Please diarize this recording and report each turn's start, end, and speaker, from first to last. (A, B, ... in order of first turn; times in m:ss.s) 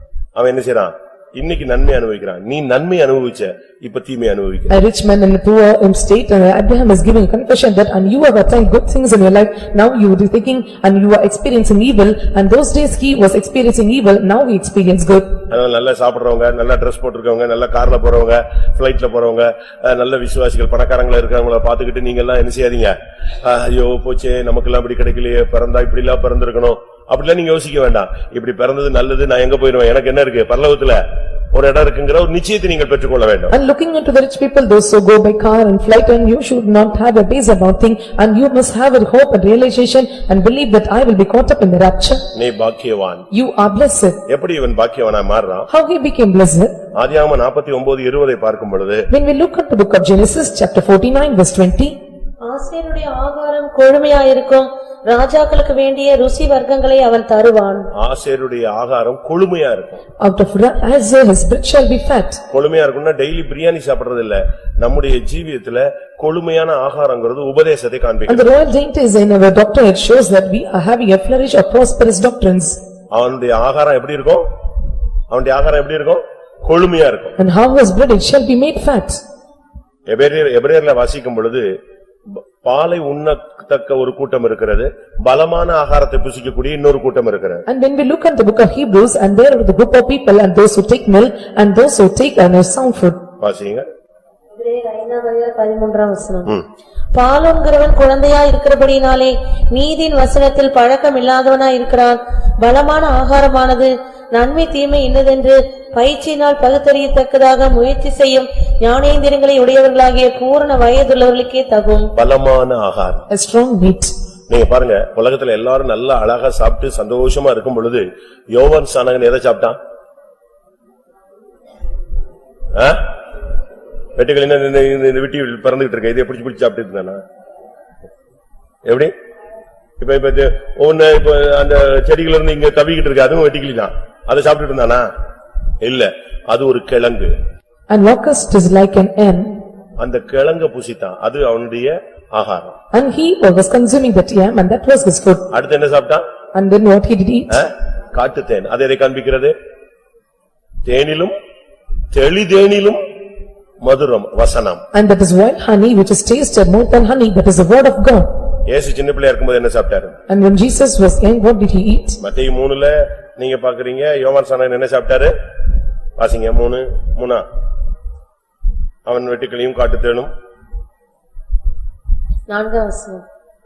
0:00.4-0:04.7 A
0:04.7-0:15.4 B
0:15.5-0:31.0 A
0:31.5-0:33.5 A
0:33.5-0:42.3 B
0:42.3-0:43.3 A
0:43.3-0:44.2 B
0:44.3-0:45.7 A
0:45.7-0:46.8 B
0:47.0-0:49.1 A
0:49.1-0:52.0 B
0:52.4-0:57.9 C
0:58.0-1:00.0 A
1:00.2-1:02.4 B
1:02.5-1:08.5 A
1:08.3-1:12.8 B
1:13.1-1:14.5 A
1:15.3-1:17.4 A
1:17.4-1:19.2 B
1:20.1-1:21.7 A
1:22.3-1:27.6 A
1:27.7-1:33.2 B
1:33.4-1:33.9 A
1:34.6-1:36.5 C
1:37.1-1:52.1 C
1:52.2-1:53.2 A
1:53.3-1:54.1 B
1:54.5-1:59.8 A
2:02.7-2:03.0 A
2:04.2-2:07.2 A
2:08.8-2:09.1 A
2:10.0-2:15.1 A
2:15.8-2:17.3 A
2:17.9-2:19.6 B
2:20.0-2:22.8 A
2:22.9-2:25.5 B
2:25.5-2:26.3 A
2:26.5-2:27.6 B
2:27.5-2:29.5 A
2:30.9-2:31.3 A
2:32.1-2:33.0 A
2:33.8-2:34.8 A
2:34.9-2:38.3 B
2:38.7-2:40.2 A
2:40.3-2:42.2 B
2:42.2-2:45.3 A
2:46.2-2:47.4 A
2:49.1-2:50.3 A
2:52.5-2:53.2 C